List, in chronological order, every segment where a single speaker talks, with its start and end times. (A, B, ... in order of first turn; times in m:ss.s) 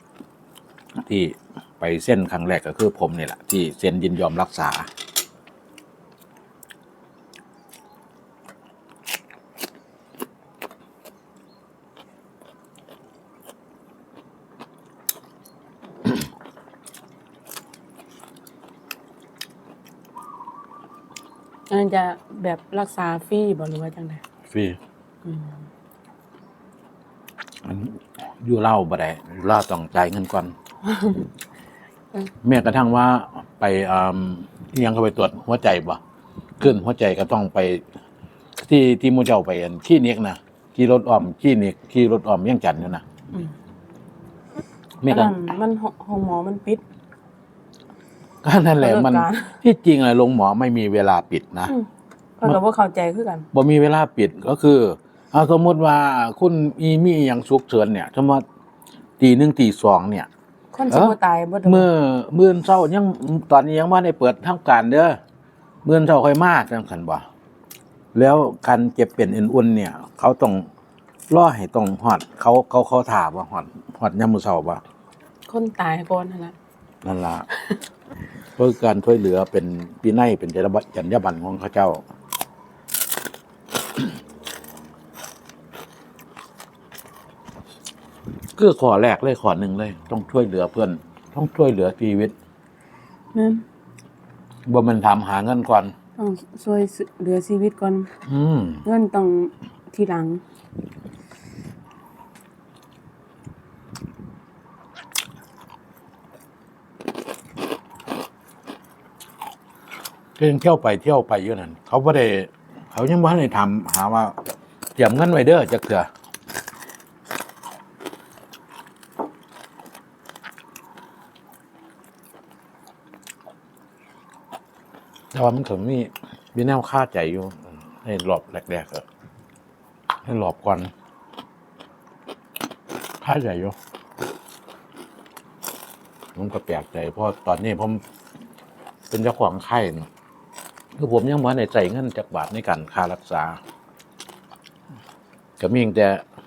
0:01.0-0:04.9 A
0:21.7-0:24.2 B
0:24.5-0:24.8 A
0:25.2-0:25.6 B
0:27.6-0:30.5 A
0:30.9-0:31.2 B
0:32.4-0:36.0 A
0:36.6-0:37.8 A
0:38.6-0:43.0 A
0:45.0-0:45.4 A
0:45.0-0:46.8 B
0:48.4-0:51.7 A
0:48.8-0:49.6 B
0:52.4-0:53.5 B
0:53.5-0:58.4 A
0:59.2-1:00.3 A
1:00.7-1:01.9 B
1:00.9-1:05.2 A
1:05.8-1:07.2 A
1:08.1-1:10.7 A
1:11.3-1:14.8 A
1:15.5-1:16.6 B
1:17.0-1:17.5 A
1:18.6-1:22.0 A
1:28.6-1:32.3 A
1:33.3-1:33.6 B
1:34.7-1:35.9 A
1:36.2-1:38.1 B
1:38.2-1:38.8 A
1:38.8-1:40.4 B
1:50.4-1:54.4 A
1:55.0-1:56.1 A
2:05.3-2:09.0 A
2:10.2-2:10.9 A
2:13.2-2:13.8 A
2:16.4-2:18.0 A
2:19.1-2:20.1 A
2:21.0-2:23.6 A
2:25.6-2:26.2 A